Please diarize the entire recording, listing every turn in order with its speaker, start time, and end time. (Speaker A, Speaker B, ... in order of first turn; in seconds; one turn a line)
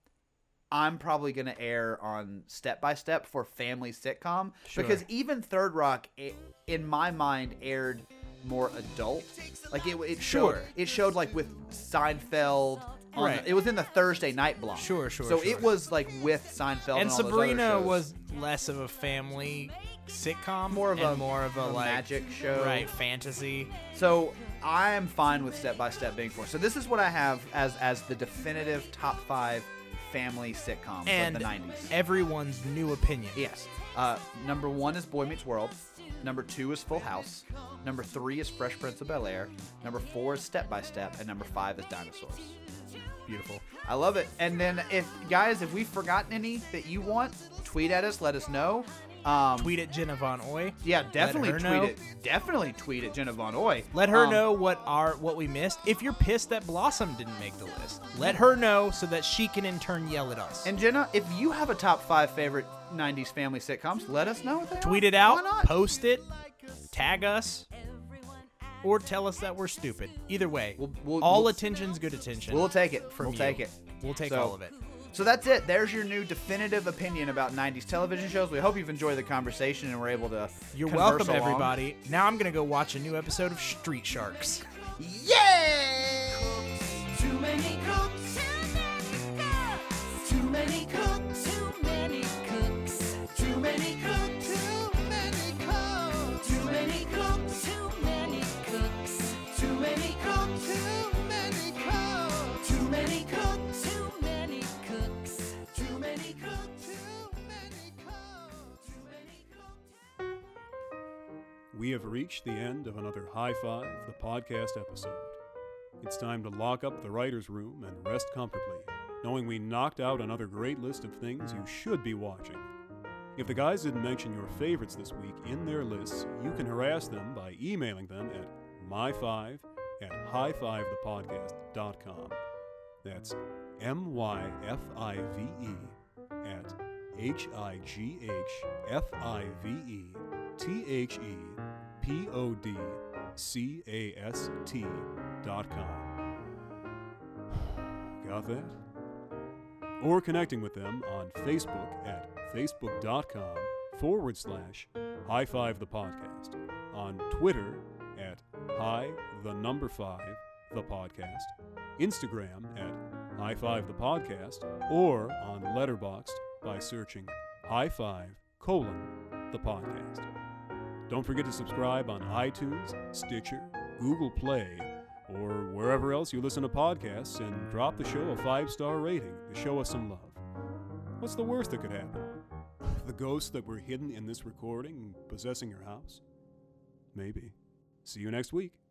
Speaker A: 0.7-18.0
Speaker B: 4.7-5.0
Speaker B: 10.2-10.7
Speaker B: 13.2-13.5
Speaker B: 14.7-15.7
Speaker B: 16.9-23.7
Speaker A: 20.7-22.9
Speaker A: 23.9-31.9
Speaker B: 31.1-33.4
Speaker A: 33.3-42.6
Speaker B: 43.2-43.6
Speaker A: 43.8-49.7
Speaker B: 49.6-52.0
Speaker A: 50.8-54.5
Speaker B: 53.9-60.7
Speaker A: 58.2-58.4
Speaker A: 60.6-65.8
Speaker B: 64.8-66.2
Speaker B: 66.9-67.7
Speaker B: 68.8-74.7
Speaker A: 70.8-71.6
Speaker A: 72.5-74.6
Speaker A: 75.1-81.8
Speaker B: 80.7-84.6
Speaker A: 85.0-86.4
Speaker C: 85.1-88.9
Speaker C: 90.2-109.7
Speaker D: 111.7-115.4
Speaker D: 116.0-122.7
Speaker D: 123.3-132.4
Speaker D: 133.0-146.1
Speaker D: 147.5-148.8
Speaker D: 150.0-170.2
Speaker D: 171.1-180.4
Speaker D: 181.2-182.3
Speaker D: 182.8-186.2
Speaker D: 187.1-187.5
Speaker D: 188.0-188.8